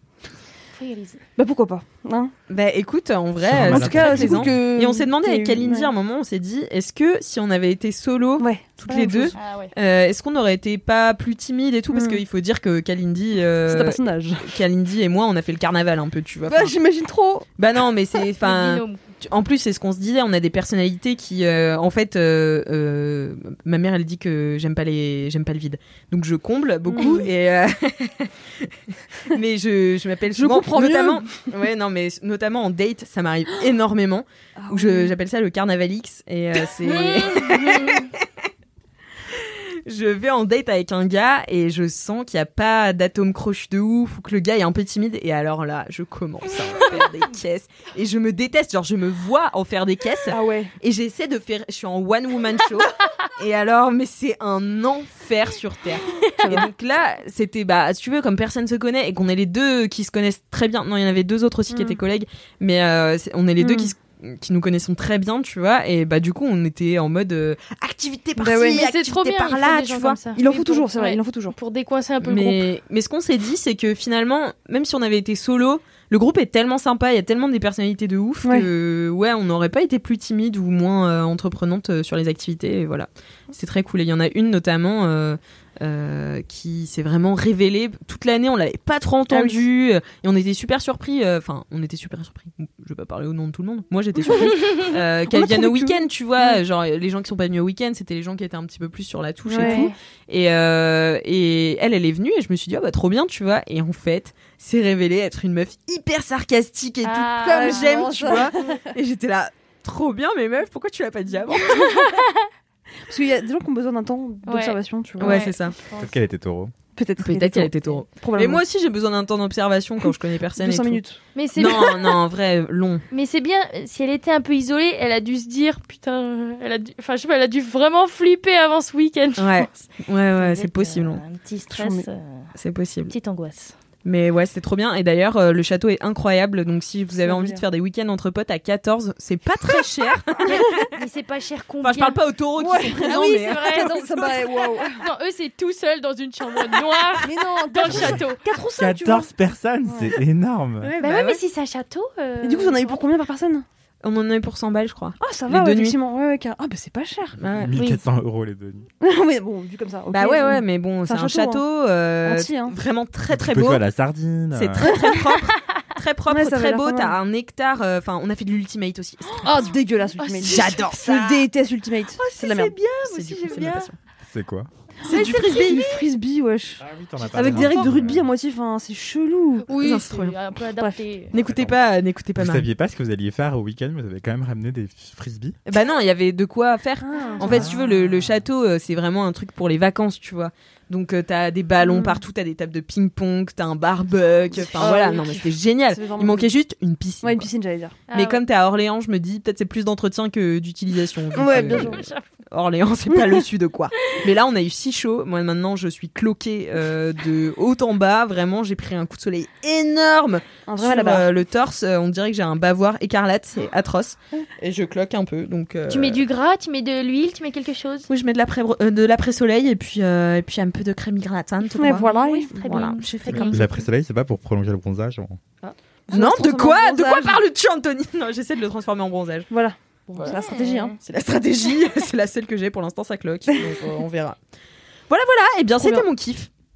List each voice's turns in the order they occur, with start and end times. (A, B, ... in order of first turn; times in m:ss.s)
0:00.8-0:01.2 A
0:01.4-0:02.3 B
0:02.5-0:16.8 C
0:03.4-0:04.5 D
0:03.5-0:05.9 B
0:08.4-0:09.4 B
0:09.4-0:09.7 A
0:11.9-0:12.2 B
0:13.7-0:14.6 B
0:16.5-0:17.5 B
0:17.6-0:28.7 C
0:18.4-0:19.0 A
0:26.9-0:27.3 B
0:29.3-0:38.3 C
0:30.3-0:31.5 B
0:34.6-0:35.2 B
0:36.9-0:37.5 B
0:36.9-0:38.1 A
0:39.3-1:10.2 C
0:50.3-0:50.7 B
0:56.4-0:56.7 B
1:01.7-1:02.0 B
1:03.6-1:03.9 B
1:08.4-1:12.6 A
1:08.4-1:08.8 B
1:10.4-1:11.6 B
1:12.2-1:51.9 C
1:18.4-1:18.7 B
1:29.3-1:29.6 B
1:34.2-1:36.6 B
1:39.5-1:39.9 B
1:39.6-1:40.0 A
1:47.0-1:48.6 A
1:47.5-1:48.8 B
1:51.6-1:52.5 A
1:53.1-1:55.5 B
1:54.4-1:56.2 A
1:55.2-1:55.8 C
1:56.0-1:56.7 D
1:57.0-1:58.6 B
1:57.2-2:01.0 C
2:00.6-2:01.2 B
2:01.4-2:02.2 A
2:01.6-2:03.0 C
2:03.1-2:12.5 A
2:09.4-2:11.2 C
2:11.7-2:12.0 B
2:12.6-2:13.1 C
2:13.1-2:13.8 A
2:14.0-2:20.7 C
2:17.2-2:17.6 B
2:20.4-2:20.7 B
2:20.5-2:22.2 A
2:21.8-2:24.5 C
2:22.6-2:25.0 B
2:22.9-2:24.2 A
2:24.9-2:28.4 A
2:26.8-2:27.2 C
2:27.2-2:29.3 B
2:27.9-2:30.9 D
2:29.9-2:30.1 B
2:30.8-2:31.4 C
2:31.0-2:33.0 A
2:32.4-2:33.6 B
2:34.0-2:36.0 C
2:35.2-2:37.4 B
2:37.4-2:37.7 C
2:37.4-2:38.9 D
2:37.7-2:38.0 A
2:39.0-2:41.6 B
2:40.1-2:43.8 C
2:42.2-2:42.8 B
2:43.3-2:45.0 D
2:44.5-2:49.5 C
2:44.8-2:45.4 B
2:46.3-2:47.2 B
2:49.3-2:53.9 B
2:49.4-2:50.8 A
2:50.5-2:51.5 C
2:52.2-2:54.0 C
2:54.3-2:54.7 D
2:55.0-2:55.9 C
2:55.0-2:59.7 B
2:55.2-2:55.5 A
2:56.8-2:58.3 D
2:57.3-2:58.1 C
2:59.7-3:01.3 A
2:59.8-3:00.4 C
3:00.8-3:01.0 B
3:01.3-3:02.7 C
3:01.4-3:01.8 D
3:02.4-3:05.6 D
3:05.7-3:17.5 C
3:07.0-3:07.7 B
3:07.4-3:08.4 D
3:11.8-3:12.2 B
3:14.6-3:15.1 A
3:14.8-3:16.5 B
3:17.2-3:18.0 B
3:18.1-3:18.4 A
3:18.1-3:36.2 C
3:21.4-3:22.1 B
3:21.6-3:22.3 A
3:30.7-3:31.3 B
3:35.9-3:38.1 A
3:38.1-3:42.1 C
3:41.8-3:42.9 B
3:41.8-3:43.9 A
3:42.7-3:43.6 C
3:43.3-3:45.4 D
3:45.6-3:49.5 C
3:46.1-3:47.4 B
3:49.5-3:51.0 B
3:50.1-3:50.4 C
3:50.2-3:51.0 A
3:51.0-3:54.4 C
3:53.6-3:53.8 B
3:55.1-3:56.5 C